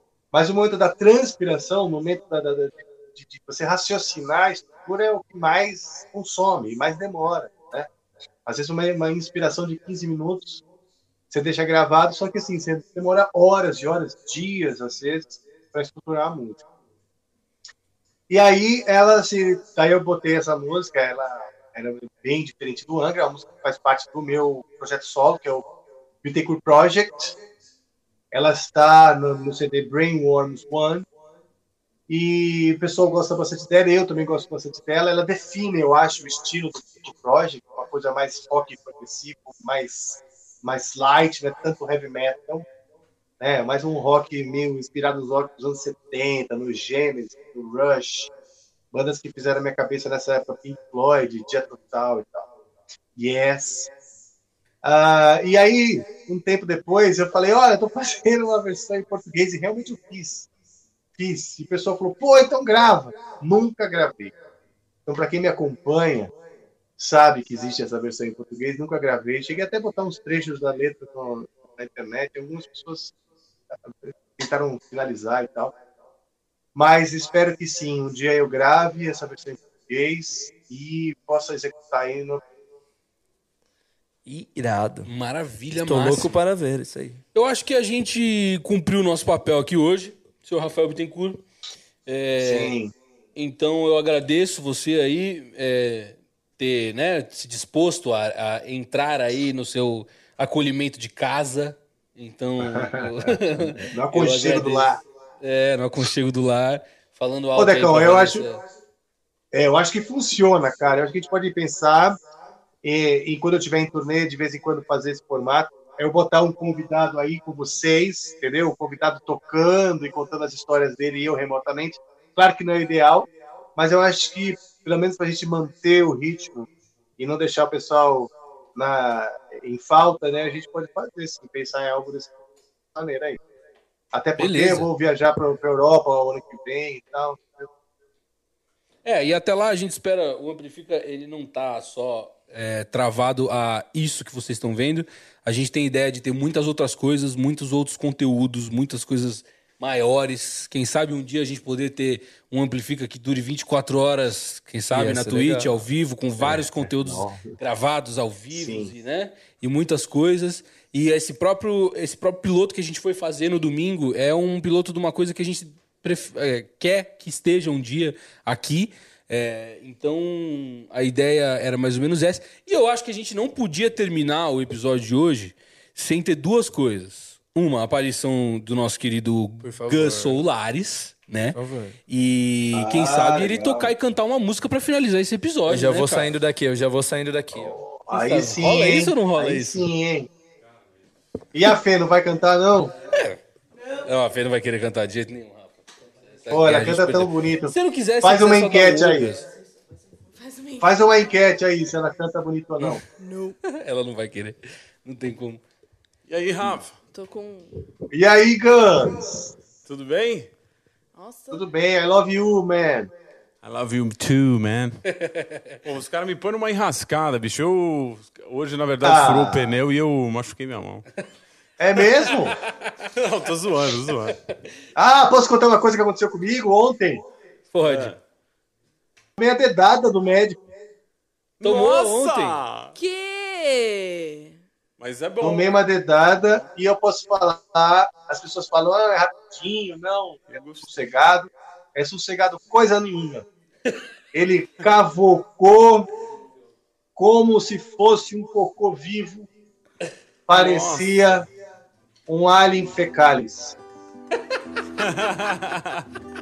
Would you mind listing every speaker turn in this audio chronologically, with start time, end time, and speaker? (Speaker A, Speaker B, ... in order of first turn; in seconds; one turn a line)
Speaker A: 0.3-7.9
Speaker A: 8.5-10.6
Speaker A: 11.3-16.6
Speaker A: 18.3-25.6
Speaker A: 26.2-27.4
Speaker A: 28.3-31.1
Speaker A: 32.1-42.6
Speaker A: 43.4-48.3
Speaker A: 48.9-52.5
Speaker A: 53.2-53.9
Speaker A: 54.8-60.5
Speaker A: 61.2-64.3
Speaker A: 65.1-66.3
Speaker A: 67.0-73.1
Speaker A: 73.9-75.7
Speaker A: 76.8-82.4
Speaker B: 84.3-85.1
Speaker C: 85.1-86.4
Speaker B: 85.8-87.2
Speaker C: 87.3-91.4
Speaker C: 92.1-92.8
Speaker A: 92.4-92.9
Speaker C: 93.3-108.6
Speaker A: 102.6-105.0
Speaker A: 107.6-108.5
Speaker A: 109.5-112.2
Speaker A: 112.8-126.7
Speaker A: 127.2-132.3
Speaker A: 132.9-133.4
Speaker A: 134.1-137.7
Speaker C: 134.4-134.9
Speaker C: 139.0-181.6
Speaker B: 154.9-155.7
Speaker A: 156.4-157.6
Speaker A: 158.5-158.9
Speaker B: 179.6-180.4
Speaker B: 181.6-182.0
Speaker C: 182.1-186.3
Speaker A: 182.7-183.9
Speaker B: 185.7-187.7
Speaker A: 187.5-190.3
Speaker C: 188.1-189.9
Speaker A: 191.5-192.9
Speaker C: 193.1-193.4
Speaker C: 194.1-199.5
Speaker A: 196.5-199.4
Speaker D: 200.3-201.0
Speaker A: 200.8-203.0
Speaker D: 203.2-203.6
Speaker C: 203.6-205.6
Speaker E: 206.3-206.9
Speaker D: 207.1-207.8
Speaker A: 208.1-209.5
Speaker E: 209.8-210.5
Speaker D: 211.2-211.6
Speaker A: 211.5-213.1
Speaker E: 213.6-215.0
Speaker C: 215.1-215.8
Speaker E: 215.8-221.0
Speaker A: 219.0-219.8
Speaker A: 221.8-222.6
Speaker C: 222.3-222.9
Speaker E: 223.2-224.4
Speaker C: 224.1-224.4
Speaker A: 225.0-227.2
Speaker C: 227.7-228.2
Speaker E: 227.8-228.2
Speaker A: 229.4-230.6
Speaker C: 231.6-232.6
Speaker E: 231.6-232.9
Speaker D: 233.0-234.6
Speaker E: 235.0-235.8
Speaker A: 235.4-243.4
Speaker E: 240.5-241.1
Speaker A: 244.3-246.1
Speaker A: 247.2-249.5
Speaker A: 250.5-251.5
Speaker E: 250.5-251.4
Speaker A: 252.3-253.8
Speaker E: 255.0-256.0